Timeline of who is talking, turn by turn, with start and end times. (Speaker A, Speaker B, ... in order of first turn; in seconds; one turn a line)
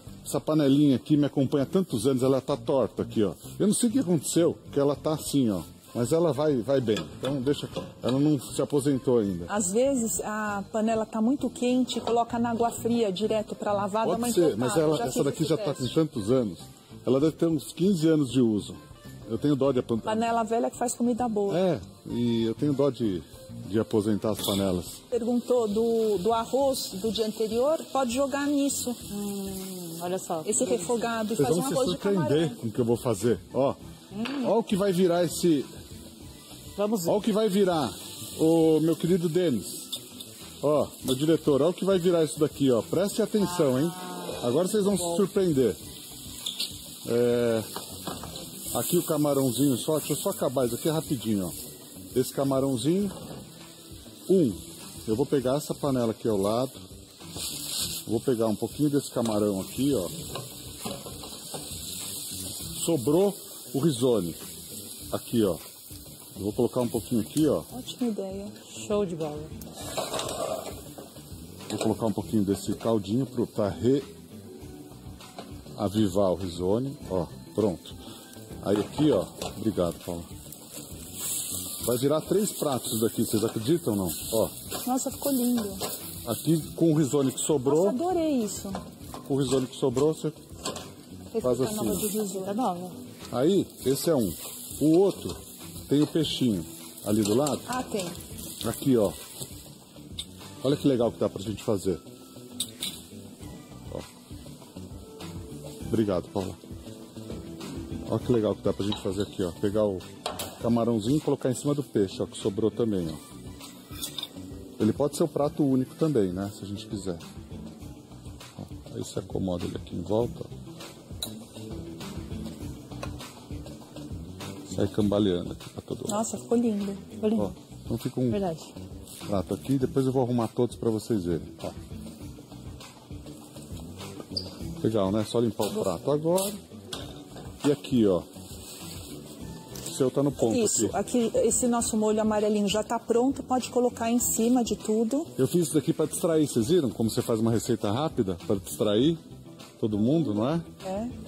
Speaker A: 0.2-9.5
Speaker B: 9.5-15.9
Speaker A: 14.0-20.3
Speaker B: 20.1-21.6
Speaker A: 21.5-25.0
Speaker B: 25.1-29.0
Speaker C: 29.1-31.1
Speaker B: 30.4-32.6
Speaker A: 31.4-35.7
Speaker C: 34.1-34.5
Speaker C: 36.8-37.2
Speaker A: 37.1-39.9
Speaker A: 40.6-45.8
Speaker C: 43.5-45.2
Speaker A: 47.0-47.7
Speaker A: 48.7-51.5
Speaker A: 52.1-53.1
Speaker A: 54.3-56.8
Speaker A: 58.0-60.1
Speaker A: 62.8-64.4
Speaker A: 65.1-65.6
Speaker A: 66.3-67.7
Speaker B: 67.7-68.6
Speaker C: 68.7-69.5
Speaker A: 71.7-74.1
Speaker A: 75.8-78.0
Speaker A: 78.6-80.3
Speaker A: 81.8-84.5
Speaker B: 84.8-85.8
Speaker A: 86.2-88.0
Speaker B: 87.6-88.8
Speaker A: 89.2-90.3
Speaker B: 91.3-92.5
Speaker A: 91.4-92.1
Speaker C: 92.1-93.0
Speaker A: 93.3-97.7
Speaker B: 97.7-98.2
Speaker A: 98.6-99.2
Speaker A: 100.6-102.0
Speaker A: 105.9-106.6
Speaker A: 108.0-110.0
Speaker A: 110.6-113.2
Speaker A: 114.8-117.2
Speaker A: 118.5-120.5
Speaker A: 124.7-126.3
Speaker B: 126.1-127.1
Speaker C: 127.2-127.5
Speaker A: 127.3-128.4
Speaker C: 128.3-128.7
Speaker A: 129.3-131.7
Speaker A: 134.8-136.6
Speaker A: 137.6-138.2
Speaker A: 139.8-140.9
Speaker B: 140.4-145.3
Speaker A: 145.4-149.2
Speaker A: 149.8-150.7
Speaker B: 150.2-151.1